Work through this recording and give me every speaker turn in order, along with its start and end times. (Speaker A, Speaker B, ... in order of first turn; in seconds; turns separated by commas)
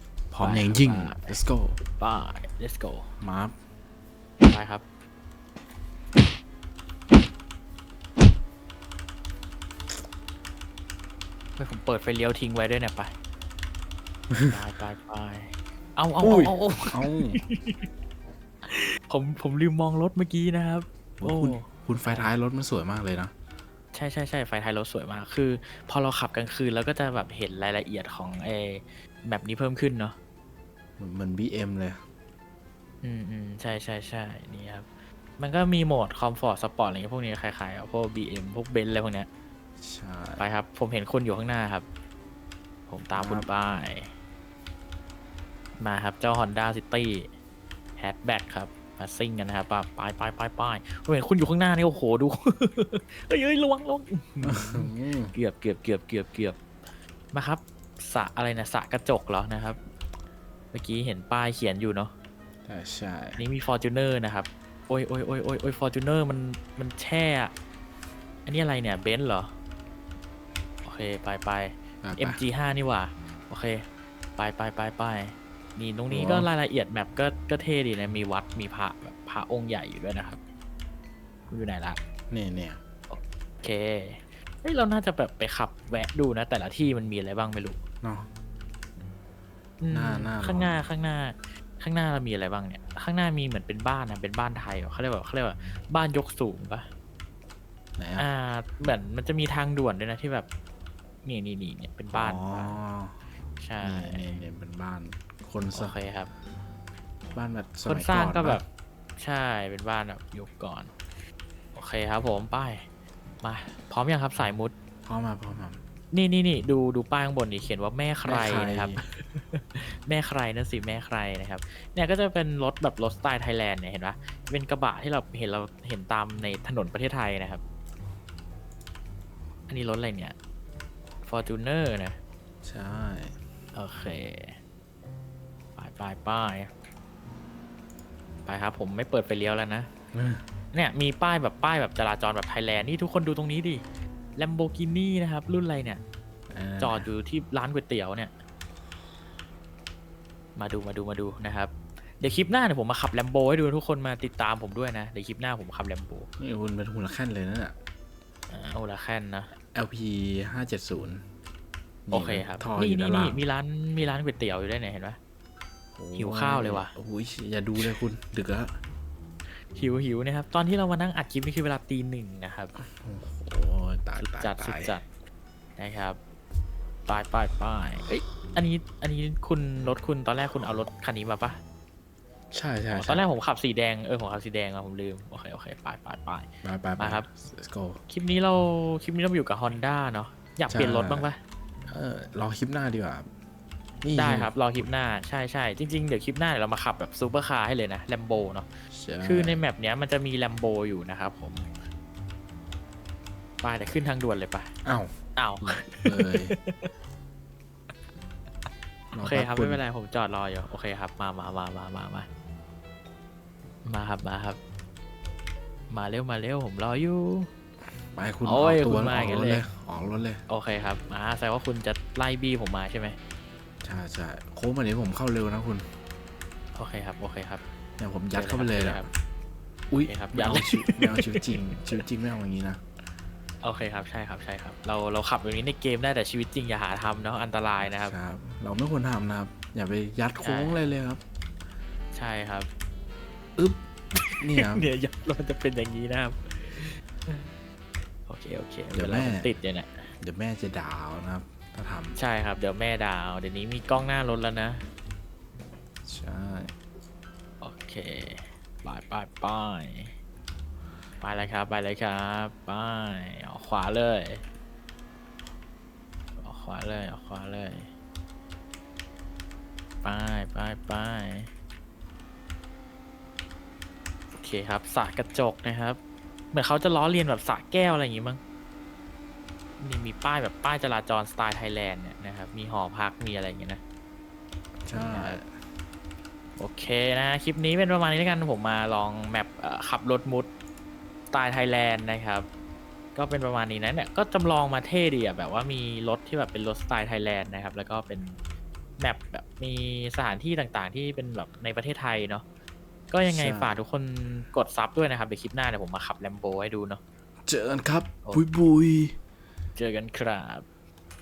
Speaker A: 0.3-1.8, Speaker B: 0.4-1.4, Speaker B: 1.9-3.1, Speaker A: 3.2-3.5, Speaker B: 4.4-4.8, Speaker B: 11.6-13.1, Speaker A: 14.3-14.6, Speaker B: 14.5-17.8, Speaker A: 16.2-17.4, Speaker B: 18.6-22.3, Speaker A: 21.2-23.3, Speaker B: 23.9-30.2, Speaker A: 31.0-32.0, Speaker B: 33.0-34.9, Speaker B: 35.4-39.3, Speaker A: 39.8-40.4, Speaker B: 40.4-41.9, Speaker B: 42.9-44.1, Speaker A: 43.1-43.5, Speaker B: 45.8-47.3, Speaker B: 48.0-56.6, Speaker A: 54.4-55.3, Speaker B: 57.3-59.8, Speaker B: 60.7-62.1, Speaker A: 62.6-63.4, Speaker B: 63.4-67.5, Speaker B: 68.5-69.5, Speaker B: 70.8-73.8, Speaker A: 72.0-72.4, Speaker B: 74.4-80.4, Speaker A: 76.1-76.5, Speaker B: 81.5-82.0, Speaker A: 82.3-82.8, Speaker B: 83.1-87.8, Speaker A: 88.0-88.3, Speaker B: 89.8-96.8, Speaker A: 89.9-90.8, Speaker A: 98.0-98.3, Speaker B: 98.2-100.5, Speaker B: 101.2-102.8, Speaker A: 102.1-103.2, Speaker B: 103.6-104.4, Speaker A: 103.8-106.0, Speaker B: 105.7-106.3, Speaker A: 107.3-108.6, Speaker B: 107.8-108.6, Speaker B: 109.2-110.9, Speaker B: 111.7-112.8, Speaker B: 113.4-114.7, Speaker A: 115.0-115.8, Speaker B: 116.1-127.6, Speaker A: 118.2-119.0, Speaker B: 129.7-130.3, Speaker B: 131.2-132.2, Speaker A: 132.6-133.4, Speaker B: 133.7-134.6, Speaker B: 135.8-136.7, Speaker B: 138.4-139.9, Speaker A: 140.1-140.4, Speaker B: 140.7-143.8, Speaker B: 144.3-146.0, Speaker A: 146.5-147.1, Speaker B: 146.8-148.3, Speaker B: 150.6-156.3, Speaker A: 156.4-157.8, Speaker B: 158.5-159.5, Speaker A: 159.7-161.2, Speaker A: 162.1-163.4, Speaker B: 162.1-165.2, Speaker A: 166.0-168.8, Speaker B: 166.1-166.9, Speaker B: 169.5-172.7, Speaker A: 172.8-175.0, Speaker B: 174.2-175.0, Speaker B: 175.8-176.2, Speaker B: 177.1-181.6, Speaker A: 182.5-183.2, Speaker B: 182.9-187.3, Speaker A: 186.6-188.0, Speaker B: 188.1-191.4, Speaker A: 190.7-191.3, Speaker A: 191.9-193.3, Speaker A: 194.0-194.5, Speaker B: 194.1-198.7, Speaker A: 198.9-199.6, Speaker B: 199.2-201.7, Speaker B: 203.6-204.7, Speaker A: 204.8-206.5, Speaker B: 205.3-206.9, Speaker A: 209.1-209.8, Speaker B: 209.2-212.3, Speaker B: 213.8-214.6, Speaker B: 215.9-217.5, Speaker A: 218.1-220.4, Speaker B: 218.4-219.6, Speaker B: 220.5-223.2, Speaker A: 223.8-225.8, Speaker B: 226.7-227.6, Speaker A: 228.0-229.1, Speaker B: 228.3-229.1, Speaker A: 229.9-232.8, Speaker B: 230.0-231.8, Speaker B: 233.6-238.2, Speaker A: 237.9-241.2, Speaker B: 240.4-240.8, Speaker B: 242.1-242.7, Speaker A: 243.6-243.8, Speaker B: 244.1-247.5, Speaker A: 244.4-244.9, Speaker B: 248.3-250.1, Speaker A: 248.9-249.5, Speaker A: 250.2-252.2, Speaker B: 252.2-254.8, Speaker A: 256.0-256.7, Speaker B: 257.6-260.1, Speaker B: 261.2-264.4, Speaker B: 266.4-267.9, Speaker B: 270.0-271.5, Speaker B: 274.3-276.0, Speaker B: 276.5-278.4, Speaker B: 279.8-283.8, Speaker A: 284.8-285.5, Speaker B: 284.9-285.4, Speaker B: 286.6-290.5, Speaker B: 291.3-292.5, Speaker B: 293.1-298.4, Speaker B: 299.0-302.4, Speaker B: 303.1-307.0, Speaker A: 303.2-303.7, Speaker A: 307.4-309.1, Speaker B: 309.8-310.6